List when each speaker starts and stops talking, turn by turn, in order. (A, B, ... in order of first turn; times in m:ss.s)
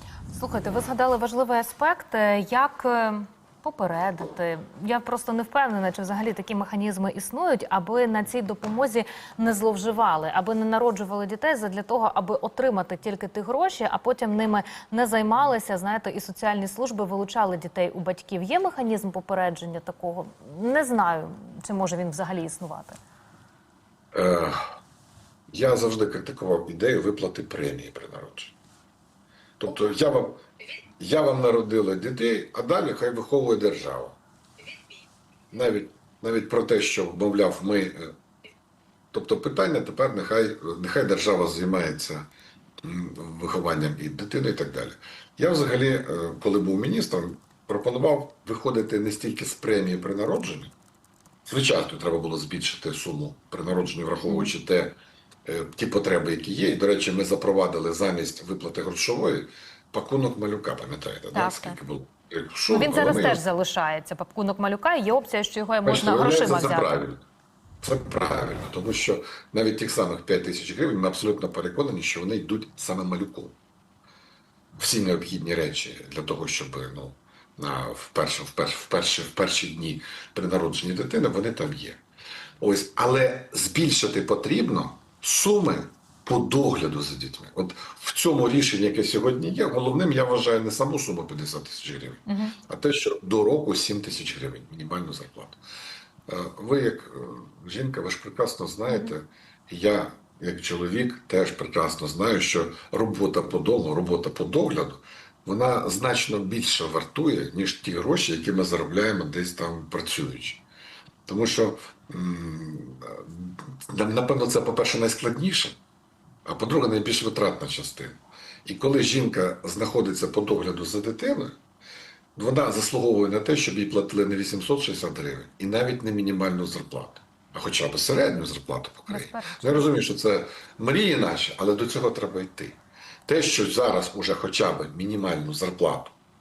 0:00.3-0:23.0 A
0:24.1-0:24.6 B
0:25.5-0:28.6 B
0:29.6-0:30.4 B
0:31.0-0:34.2 B
0:35.5-0:38.1 B
0:39.1-0:42.3 B
0:42.8-0:50.7 B
0:51.5-1:03.4 B
0:54.3-0:54.5 A
1:01.3-1:01.8 A
1:02.7-1:07.0 A
1:05.8-1:07.2 B
1:07.8-1:13.6 B
1:14.8-1:22.0 B
1:22.6-1:35.6 B
1:32.3-1:32.6 A
1:36.3-1:50.6 B
1:38.9-1:39.1 A
1:51.3-1:55.8 B
1:56.4-2:01.6 B
2:02.4-2:16.2 B
2:09.1-2:09.9 A